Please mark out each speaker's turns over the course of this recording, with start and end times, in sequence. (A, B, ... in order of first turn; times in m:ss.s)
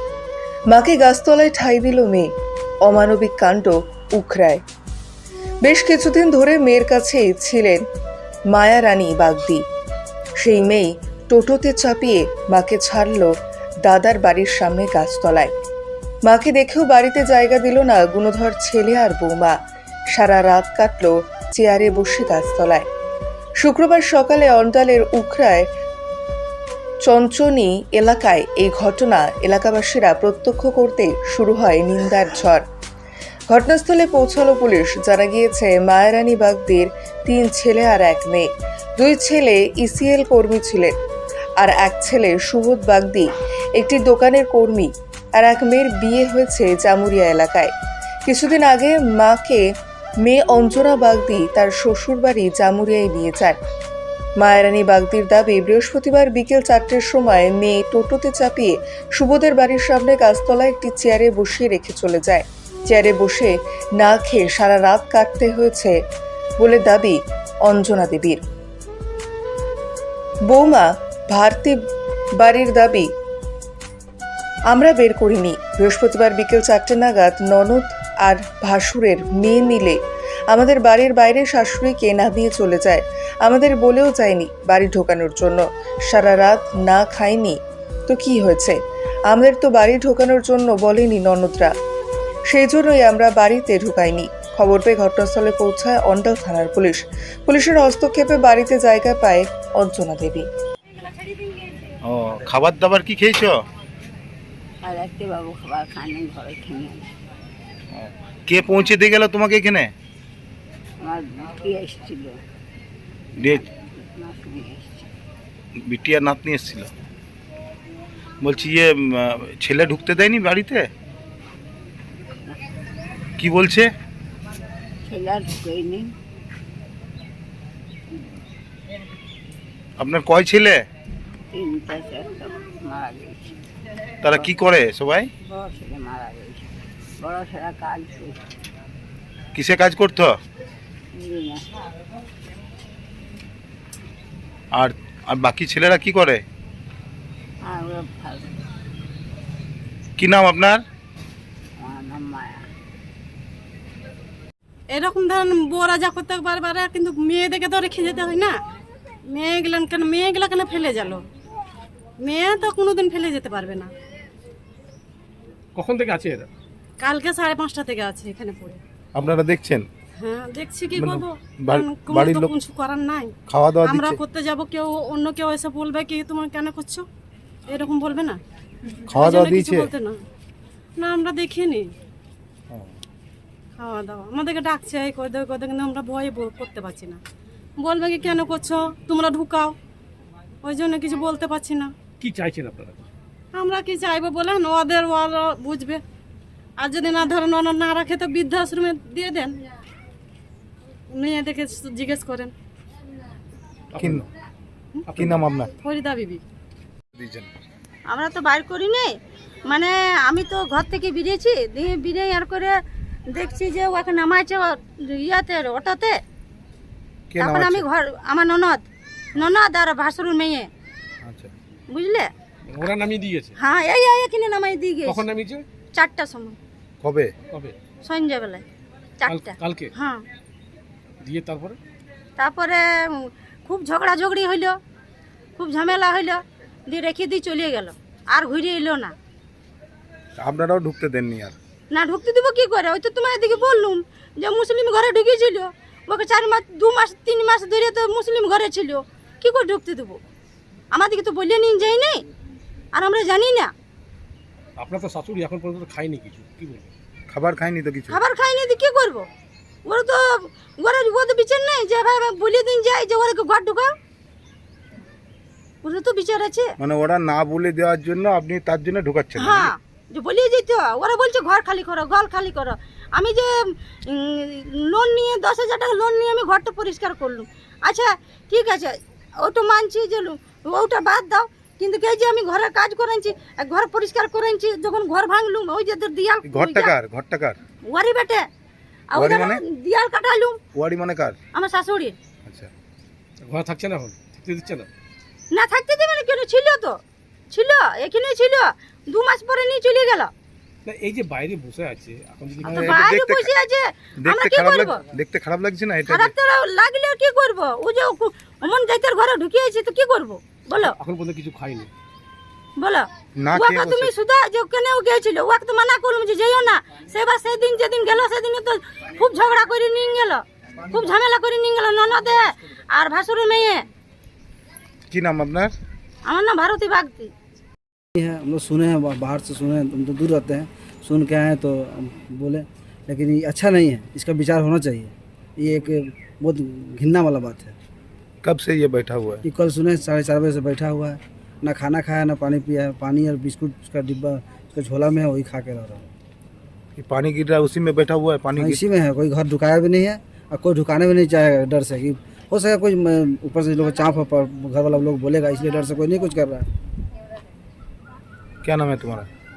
0:00.7-0:02.3 A
0:02.8-0:04.6 A
0:05.6-0:07.8 A
0:08.5-0:09.6 A
0:10.4-0:13.3 A
0:13.8-0:15.5 A
0:16.2-0:19.6 A
0:20.1-0:22.9 A
0:23.6-0:25.6 A
0:27.0-0:32.6 A
0:33.5-0:40.9 A
0:41.6-0:47.7 A
0:48.3-0:49.6 A
0:50.2-0:53.6 A
0:54.4-1:06.0 A
1:06.6-1:08.4 A
1:10.5-1:11.8 A
1:12.4-1:13.1 A
1:14.7-1:20.0 A
1:20.5-1:28.8 A
1:29.3-1:31.7 A
1:32.5-1:40.4 A
1:42.0-1:43.6 B
1:44.8-1:47.1 C
1:47.9-1:49.9 B
1:51.0-1:52.4 C
1:53.4-1:53.6 B
1:53.5-1:55.1 C
1:55.8-1:56.9 B
1:58.4-2:00.9 B
2:03.4-2:03.9 B
2:05.0-2:06.1 C
2:10.0-2:10.8 B
2:11.5-2:13.6 C
2:14.2-2:15.3 B
2:15.4-2:18.4 C
2:19.5-2:20.3 B
2:21.1-2:22.0 C
2:24.8-2:26.4 B
2:27.6-2:28.5 C
2:30.2-2:30.8 B
2:31.8-2:32.6 C
2:34.9-2:38.6 D
2:39.3-2:41.2 D
2:42.2-2:43.9 D
2:45.8-2:46.5 E
2:47.0-2:48.8 D
2:49.2-2:49.8 B
2:50.2-2:57.0 D
2:50.9-2:52.5 B
2:53.5-2:54.2 B
2:57.7-2:58.4 D
2:59.1-2:59.9 B
2:59.2-3:00.2 D
3:01.0-3:01.9 D
3:03.8-3:07.2 D
3:07.8-3:09.8 D
3:10.6-3:11.9 D
3:12.2-3:13.0 E
3:13.6-3:16.0 D
3:16.8-3:19.5 D
3:21.2-3:22.5 D
3:23.9-3:24.2 B
3:23.9-3:24.3 E
3:25.2-3:25.4 E
3:25.2-3:25.7 B
3:25.8-3:26.4 D
3:27.1-3:27.5 B
3:28.1-3:29.1 F
3:29.7-3:32.8 F
3:33.3-3:36.2 F
3:37.3-3:37.8 B
3:37.4-3:40.7 F
3:41.2-3:41.5 B
3:41.9-3:42.3 F
3:42.7-3:43.6 E
3:43.6-3:45.2 F
3:45.1-3:45.7 E
3:45.9-3:46.6 F
3:47.0-3:47.3 B
3:47.5-3:47.8 E
3:48.0-3:48.6 F
3:49.2-3:50.2 F
3:49.3-3:49.9 E
3:51.2-3:51.8 E
3:52.4-3:54.8 F
3:55.6-3:59.1 F
4:00.4-4:01.6 B
4:01.9-4:10.2 F
4:10.9-4:12.2 F
4:12.9-4:13.7 F
4:14.8-4:16.9 E
4:17.3-4:18.2 B
4:18.1-4:19.3 F
4:19.9-4:23.9 F
4:25.8-4:26.7 F
4:26.8-4:29.7 B
4:29.4-4:33.5 F
4:34.1-4:46.9 F
4:46.5-4:47.6 B
4:47.9-4:48.5 F
4:49.1-4:50.6 F
4:49.2-4:49.6 B
4:50.7-4:51.4 B
4:51.5-4:52.2 F
4:52.5-4:52.7 B
4:53.4-4:54.9 E
4:55.5-4:57.0 F
4:57.5-5:00.3 F
5:00.8-5:03.0 E
5:02.6-5:03.5 B
5:02.6-5:05.0 F
5:04.2-5:06.3 B
5:06.1-5:11.0 F
5:10.7-5:11.9 E
5:12.8-5:23.8 F
5:13.4-5:14.1 B
5:25.1-5:25.7 B
5:26.3-5:27.3 F
5:28.1-5:37.8 G
5:38.4-5:39.4 B
5:39.4-5:46.1 G
5:47.0-5:48.8 B
5:48.6-5:56.7 G
5:58.6-5:59.3 B